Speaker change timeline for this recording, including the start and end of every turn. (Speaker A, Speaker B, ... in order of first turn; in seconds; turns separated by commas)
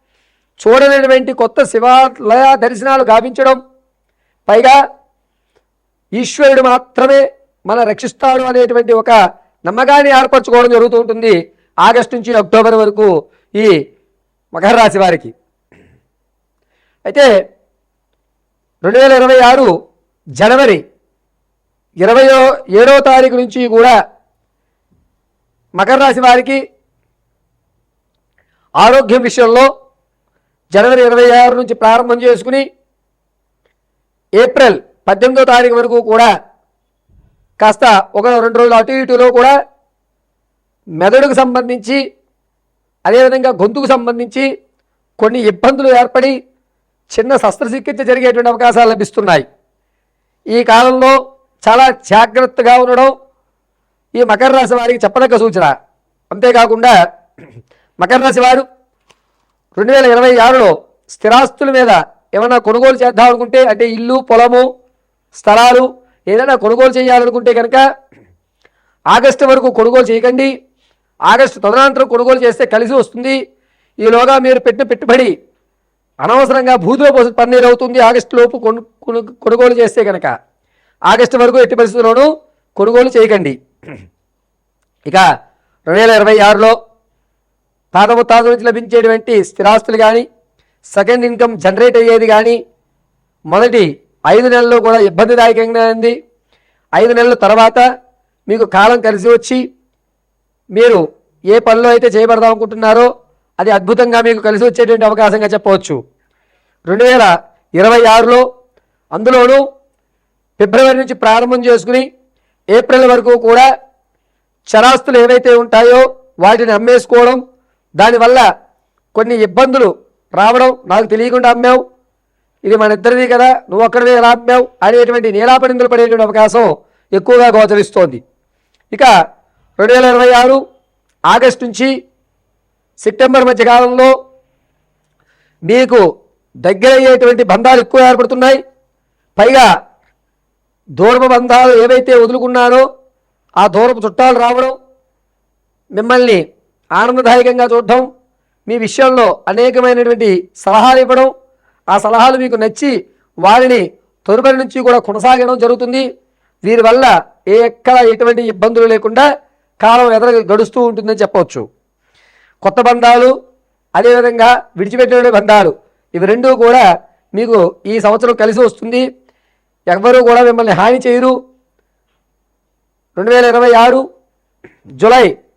Speaker A: 0.6-3.6, Speaker A: 4.5-4.8, Speaker A: 6.2-13.7, Speaker A: 14.6-15.3, Speaker A: 18.9-19.7, Speaker A: 20.4-20.8, Speaker A: 22.0-24.0, Speaker A: 25.8-26.6, Speaker A: 28.8-29.7, Speaker A: 30.7-32.6, Speaker A: 34.4-36.3, Speaker A: 37.6-39.5, Speaker A: 41.0-42.0, Speaker A: 43.1-44.5, Speaker A: 45.2-46.4, Speaker A: 47.1-49.5, Speaker A: 50.5-53.1, Speaker A: 54.2-55.7, Speaker A: 56.3-56.9, Speaker A: 58.0-58.6, Speaker A: 59.8-64.7, Speaker A: 65.3-67.8, Speaker A: 69.1-70.5, Speaker A: 71.3-73.4, Speaker A: 74.0-75.3, Speaker A: 76.2-80.3, Speaker A: 81.1-83.5, Speaker A: 85.9-86.8, Speaker A: 87.9-90.2, Speaker A: 91.0-92.6, Speaker A: 93.5-96.2, Speaker A: 97.0-97.8, Speaker A: 98.5-99.6, Speaker A: 100.8-101.0, Speaker A: 101.5-103.1, Speaker A: 103.6-106.0, Speaker A: 106.9-108.5, Speaker A: 109.2-109.6, Speaker A: 110.6-112.1, Speaker A: 112.7-113.7, Speaker A: 114.7-117.4, Speaker A: 118.0-118.5, Speaker A: 119.2-121.8, Speaker A: 122.7-128.2, Speaker A: 129.8-130.6, Speaker A: 131.3-131.9, Speaker A: 133.0-134.1, Speaker A: 135.7-136.0, Speaker A: 136.7-138.6, Speaker A: 139.4-139.7, Speaker A: 141.0-142.9, Speaker A: 143.6-144.7, Speaker A: 146.0-146.4, Speaker A: 147.0-148.1, Speaker A: 148.7-151.3, Speaker A: 151.9-152.9, Speaker A: 153.4-156.1, Speaker A: 156.7-159.3, Speaker A: 159.8-161.7, Speaker A: 162.6-163.3, Speaker A: 164.0-166.8, Speaker A: 167.4-169.1, Speaker A: 169.9-171.3, Speaker A: 173.2-174.0, Speaker A: 175.0-175.3